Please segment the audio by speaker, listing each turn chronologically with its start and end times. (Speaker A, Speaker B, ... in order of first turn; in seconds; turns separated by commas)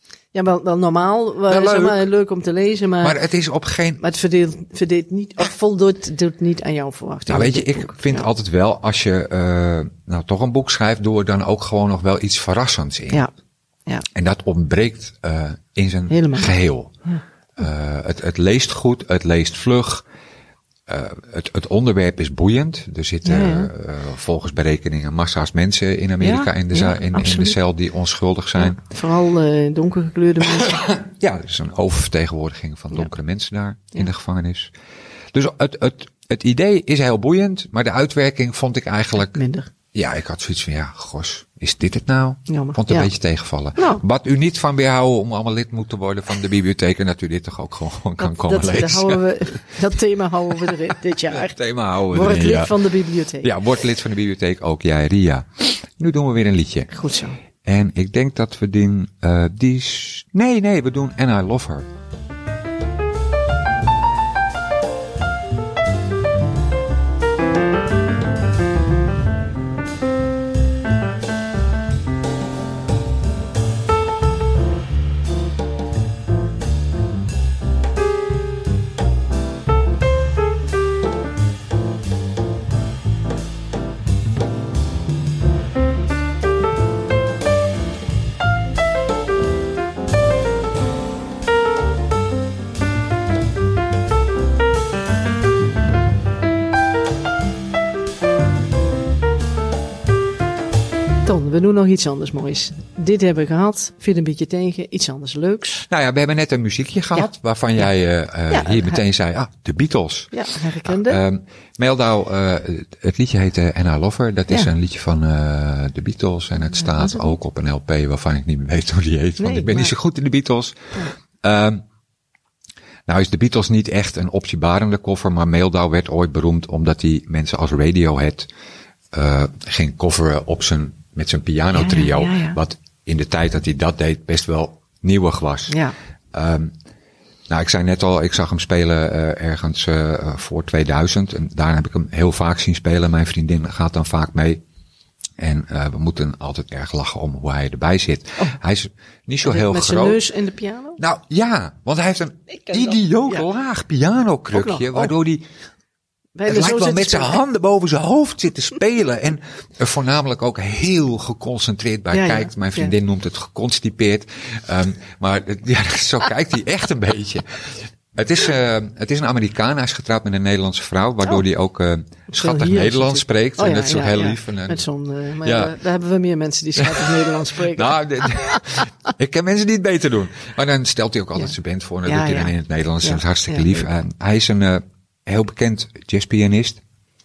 Speaker A: 0.3-3.2, Speaker B: 1.5-2.1, Speaker B: 3.0-4.0, Speaker A: 4.0-8.3, Speaker B: 7.3-13.3, Speaker B: 14.1-16.9, Speaker A: 16.1-16.5, Speaker B: 17.6-20.1, Speaker B: 20.9-28.8, Speaker A: 23.2-23.7, Speaker A: 26.2-27.6, Speaker A: 28.6-30.9, Speaker B: 30.7-34.7, Speaker B: 35.3-39.4, Speaker A: 39.3-39.7, Speaker B: 39.9-49.6, Speaker A: 42.5-43.1, Speaker A: 43.8-44.0, Speaker A: 48.2-51.6, Speaker B: 51.3-56.9, Speaker A: 52.1-53.5, Speaker A: 56.9-57.4, Speaker B: 57.6-61.9, Speaker A: 101.3-105.9, Speaker B: 105.9-110.3, Speaker A: 107.2-107.9, Speaker A: 108.5-109.0, Speaker A: 110.3-111.2, Speaker B: 110.8-121.8, Speaker A: 116.8-117.4, Speaker A: 119.4-119.9, Speaker B: 123.1-128.5, Speaker B: 129.1-135.8, Speaker A: 131.7-132.6, Speaker A: 135.7-135.9, Speaker B: 136.3-136.7, Speaker B: 137.5-144.6, Speaker B: 145.4-150.2, Speaker A: 149.4-151.0, Speaker B: 151.0-155.5, Speaker A: 152.6-153.4, Speaker A: 154.5-155.1, Speaker A: 156.4-157.4, Speaker B: 156.4-174.8, Speaker A: 162.1-162.9, Speaker A: 172.3-178.8, Speaker B: 175.4-175.8, Speaker B: 176.8-186.8, Speaker A: 182.1-183.8